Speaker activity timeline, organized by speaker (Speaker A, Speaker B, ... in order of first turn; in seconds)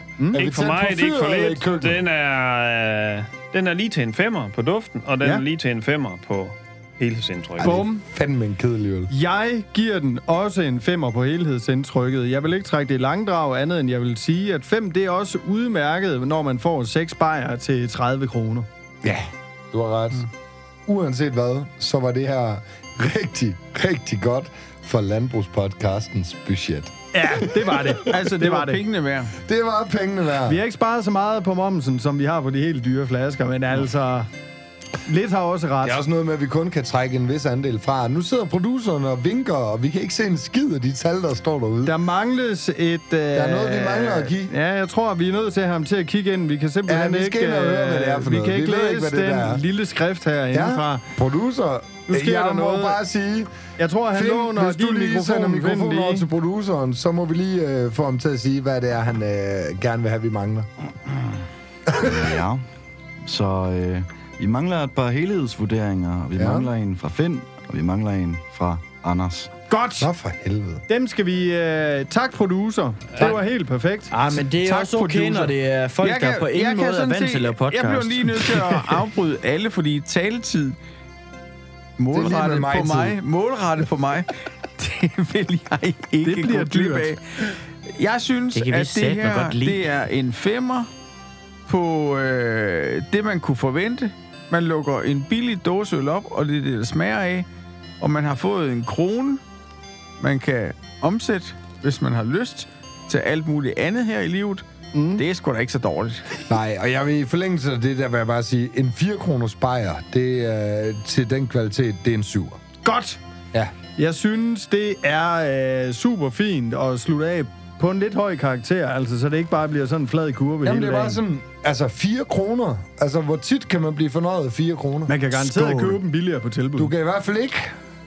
Speaker A: 0.2-0.6, 7.6-8.0, 9.1-18.7, 27.1-28.8, 30.4-34.3, 35.0-36.0, 41.8-51.0, 52.1-53.0, 53.8-56.3, 69.7-70.1, 70.9-75.5, 86.2-87.1, 104.9-105.2, 112.8-113.2, 114.0-121.2, 125.1-126.9
Speaker B: 0.3-2.0, 7.6-9.1, 19.0-20.3, 20.9-27.8, 29.4-30.6, 35.8-42.0, 43.3-44.5, 46.9-49.6, 50.5-53.5, 54.1-60.7, 61.9-62.2, 66.4-66.7, 70.0-70.8, 82.1-83.2, 106.5-112.6, 120.6-126.0, 126.8-127.8
Speaker C: 0.4-7.8
Speaker D: 28.1-29.3, 76.0-80.8, 82.0-90.9, 91.7-97.5, 98.0-99.4, 100.2-106.2
Speaker E: 62.0-62.6, 63.2-69.5
Speaker F: 74.1-78.5, 88.5-89.9